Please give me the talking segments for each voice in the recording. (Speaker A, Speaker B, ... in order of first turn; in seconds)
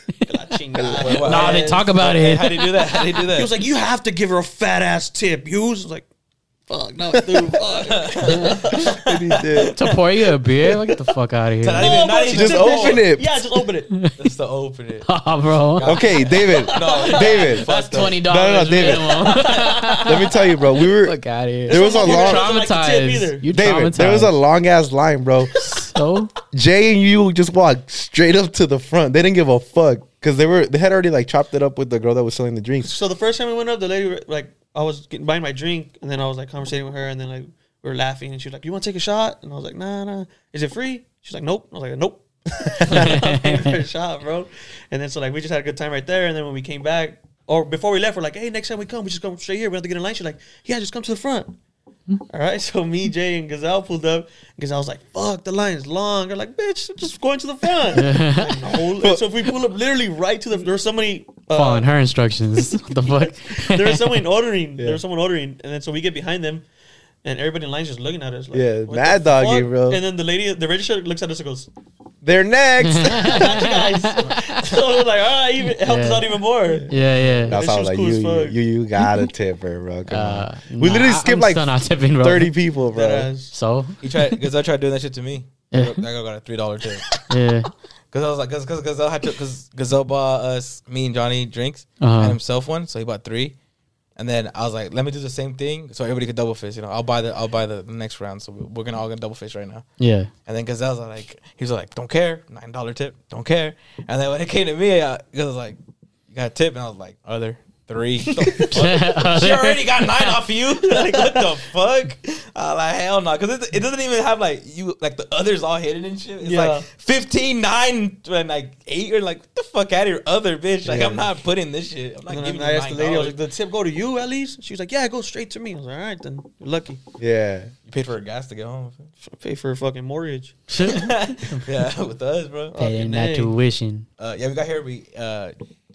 Speaker A: 0.2-1.9, 3.3-6.1, 6.7-9.1, 11.8-13.9, 16.2-17.8, 19.2-20.4, 21.7-23.5, 32.8-51.6, 52.3-61.9, 63.0-66.7, 67.2-71.7, 73.0-77.0, 77.5-78.6, 82.9-83.6, 110.8-111.5, 116.4-116.9, 122.3-127.0, 129.2-130.6, 132.7-133.5
Speaker B: 0.8-1.3, 7.1-7.6, 8.8-9.7, 12.3-13.4, 15.8-19.2, 20.0-22.5, 23.5-25.7, 26.5-32.9, 42.7-43.3, 58.8-59.3, 68.5-70.0, 72.2-73.6, 77.5-83.3, 120.8-121.3, 127.2-127.7
Speaker C: 1.0-3.6, 7.8-10.9, 11.6-13.0, 14.2-15.1, 15.7-18.2, 77.1-77.5, 84.0-87.1, 88.1-93.6, 94.2-99.9, 100.5-105.8, 106.3-123.4, 127.9-129.1, 130.8-132.8, 134.2-135.5
Speaker D: 1.2-3.0, 9.8-12.0, 13.9-14.2, 15.1-16.0, 17.7-24.3, 25.6-26.3, 42.9-43.7, 57.9-58.6, 61.5-64.2, 72.8-74.8, 75.8-77.6, 80.1-82.5, 83.5-84.0, 85.7-86.0, 87.3-87.7, 92.0-92.4, 100.0-100.3, 108.7-110.4, 130.7-131.7, 132.8-134.1